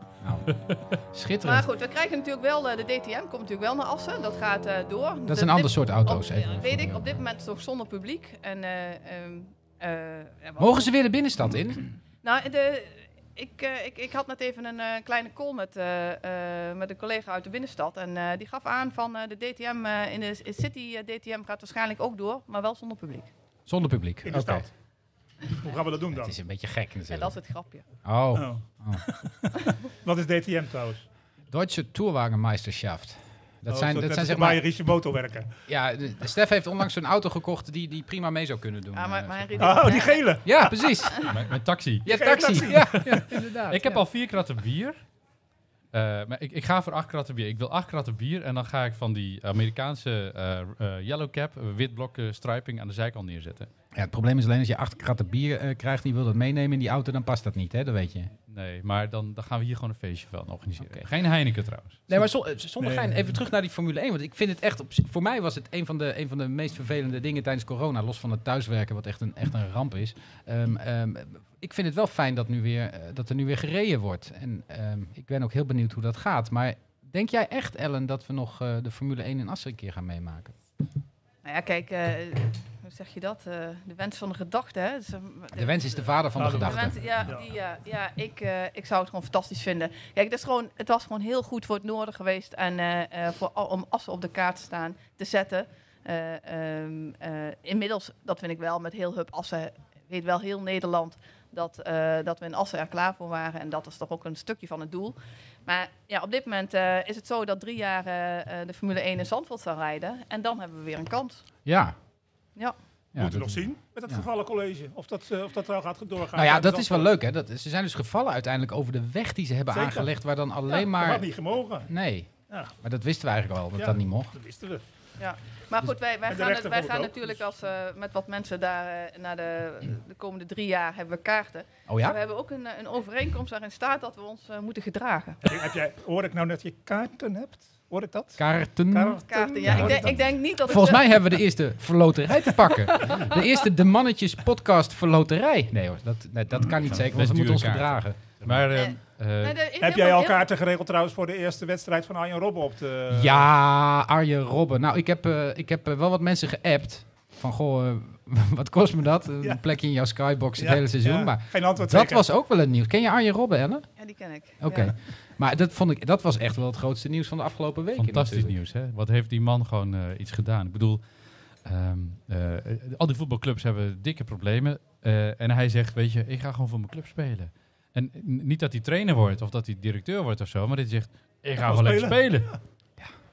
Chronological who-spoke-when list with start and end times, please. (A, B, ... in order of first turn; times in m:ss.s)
0:00.2-0:00.5 A
0:00.4-0:00.9 B
0:01.1-0:01.7 A
0:01.4-0:10.9 C
0:05.3-0:07.1 A
0:10.6-0:11.8 A
0:12.2-0:23.3 C
0:23.7-0:24.7 A
0:24.2-0:24.7 D
0:25.5-0:26.3 D
0:26.1-0:27.4 A
0:27.1-0:27.8 C
0:28.0-0:29.0 A
0:28.3-0:31.0 D
0:31.5-0:34.6 A
0:33.7-0:35.5 D
0:35.7-0:41.3 A
0:38.9-0:40.4 C
0:39.6-0:40.7 D
0:41.2-0:45.0 B
0:42.0-0:44.0 A
0:42.1-0:43.2 D
0:45.9-0:53.7 B
0:53.9-0:58.3 A
0:58.5-1:02.1 B
1:02.1-1:20.5 A
1:02.8-1:03.3 D
1:21.4-1:51.4 C
1:25.5-1:27.3 A
1:26.4-1:27.5 D
1:51.6-1:51.9 A
1:53.1-1:54.2 A
1:53.2-1:57.1 D
1:56.3-2:01.3 A
1:59.7-2:00.1 D
2:00.7-2:01.9 D
2:01.8-2:04.3 A
2:03.8-2:04.8 D
2:05.2-2:15.4 C
2:06.3-2:07.4 D
2:11.9-2:12.2 A
2:15.4-2:20.2 D
2:18.4-2:28.6 A
2:19.3-2:21.2 C
2:22.9-2:23.4 C
2:26.9-2:29.6 B
2:28.7-2:30.5 C
2:29.8-2:33.4 D
2:33.1-2:43.9 A
2:40.6-2:42.2 D
2:44.0-2:44.9 C
2:44.6-2:48.5 A
2:48.0-2:51.0 B
2:51.6-3:02.5 B
3:01.6-3:02.6 D